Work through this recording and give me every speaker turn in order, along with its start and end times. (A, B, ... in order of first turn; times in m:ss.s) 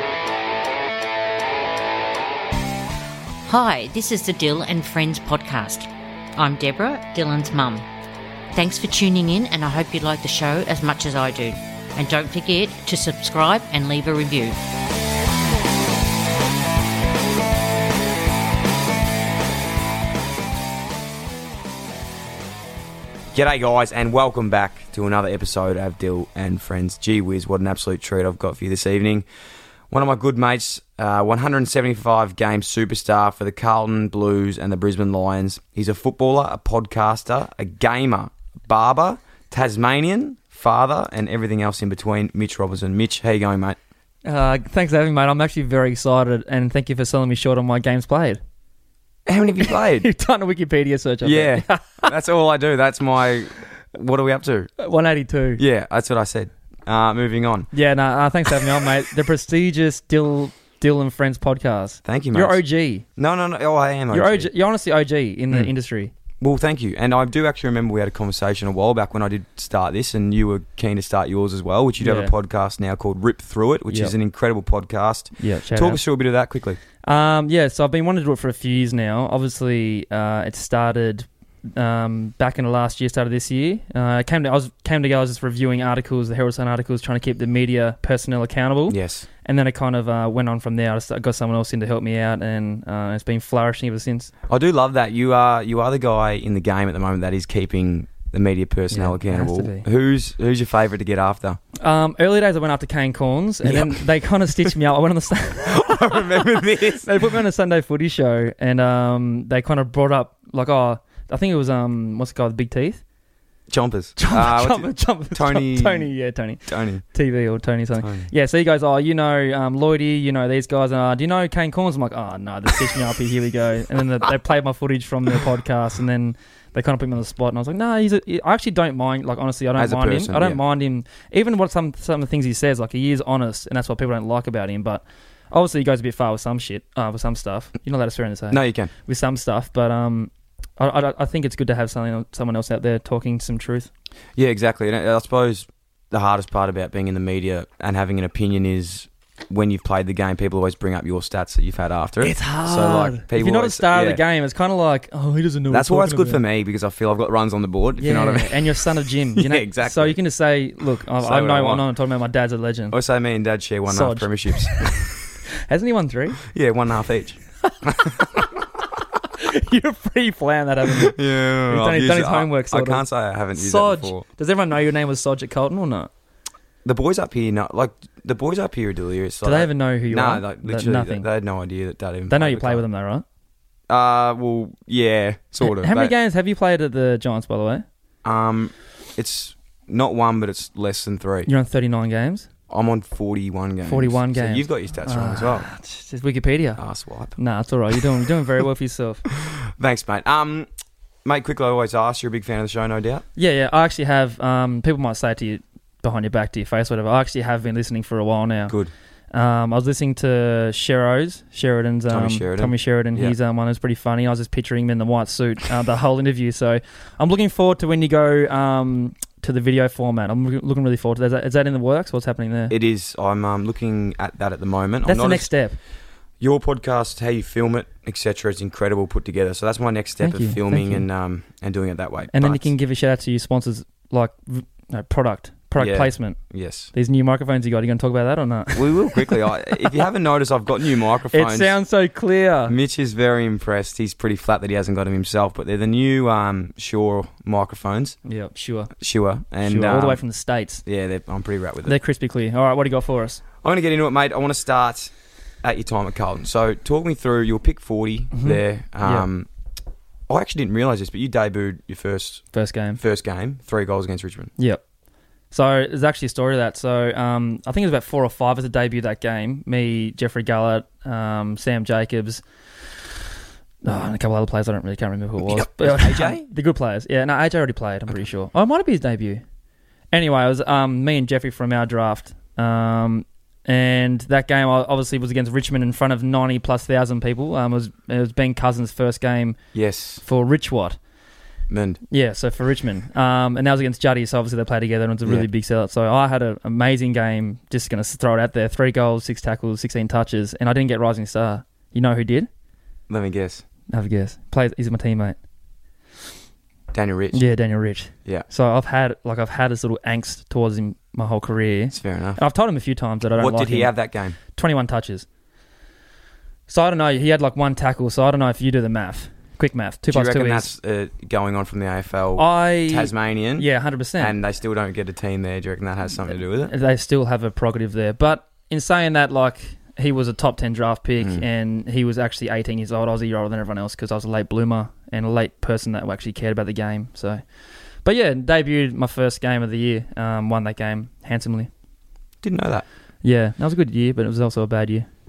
0:03.4-0:07.8 A
0:08.5-0:14.6 A
0:23.3-0:29.2 B
0:29.9-0:43.8 B
0:44.2-0:48.4 C
0:49.2-0:50.1 B
0:49.6-0:52.1 C
0:51.2-0:54.7 B
0:54.8-0:55.6 C
0:55.6-0:57.7 B
0:57.7-1:03.0 C
1:02.0-1:02.6 B
1:03.2-1:04.5 B
1:04.1-1:06.1 C
1:06.4-1:16.8 B
1:12.0-1:12.3 C
1:15.4-1:16.0 C
1:17.0-1:34.3 C
1:28.9-1:29.2 B
1:34.5-1:41.6 B
1:38.9-1:39.8 C
1:41.8-1:53.0 C
1:43.6-1:44.0 B
1:45.6-1:47.1 B
1:53.7-1:56.1 B
1:54.2-2:23.9 C
1:56.7-1:57.0 B
1:58.0-1:58.3 B
2:09.8-2:10.6 B
2:18.5-2:18.9 B
2:24.4-2:34.2 B
2:32.2-2:36.4 C
2:35.7-2:38.8 B
2:38.0-2:43.0 C
2:39.3-2:40.2 B
2:41.2-2:41.8 B
2:42.9-2:45.3 B
2:43.9-2:44.8 C
2:45.6-2:46.4 C
2:46.4-2:48.2 B
2:47.9-2:48.3 C
2:49.3-2:51.2 C
2:50.9-2:54.2 B
2:51.7-2:56.1 C
2:56.8-3:02.8 B
2:59.4-3:01.3 C
3:02.3-3:03.2 C
3:03.9-3:06.1 B
3:05.6-3:07.8 C
3:08.2-3:11.5 B
3:11.4-3:12.5 C
3:12.7-3:15.7 B
3:13.8-3:16.8 C
3:16.8-3:17.4 B
3:17.4-3:19.2 C
3:19.4-3:20.7 B
3:21.2-3:23.2 B
3:23.4-3:28.8 C
3:29.3-3:42.8 C
3:32.1-3:33.3 B
3:42.7-3:45.5 B
3:45.0-3:45.8 C
3:46.4-3:52.7 B
3:50.2-3:51.0 C
3:52.3-3:56.4 C
3:55.8-3:56.9 B
3:56.9-4:00.0 C
3:58.7-4:01.7 B
4:01.3-4:02.7 C
4:02.7-4:08.2 B
4:08.2-4:08.9 C
4:09.0-4:10.2 B
4:09.6-4:10.8 C
4:10.8-4:11.9 B
4:11.8-4:13.4 C
4:13.6-4:15.1 B
4:15.6-4:19.5 B
4:18.3-4:19.3 C
4:20.3-4:22.4 B
4:22.5-4:23.0 C
4:23.0-4:24.5 B
4:25.5-4:32.4 C
4:33.8-4:39.4 C
4:35.5-4:36.4 B
4:40.1-4:49.6 C
4:49.7-4:50.2 B
4:50.2-4:51.0 C
4:51.7-4:52.0 B
4:52.1-5:02.5 C
5:03.1-5:03.6 B
5:03.9-5:05.4 C
5:06.9-5:07.4 B
5:07.3-5:15.2 C
5:11.9-5:12.4 B
5:13.4-5:14.4 B
5:16.7-5:20.7 C
5:20.1-5:26.7 B
5:22.4-5:24.3 C
5:26.6-5:37.4 C
5:38.0-5:41.7 C
5:42.4-5:42.8 B
5:43.2-5:45.1 C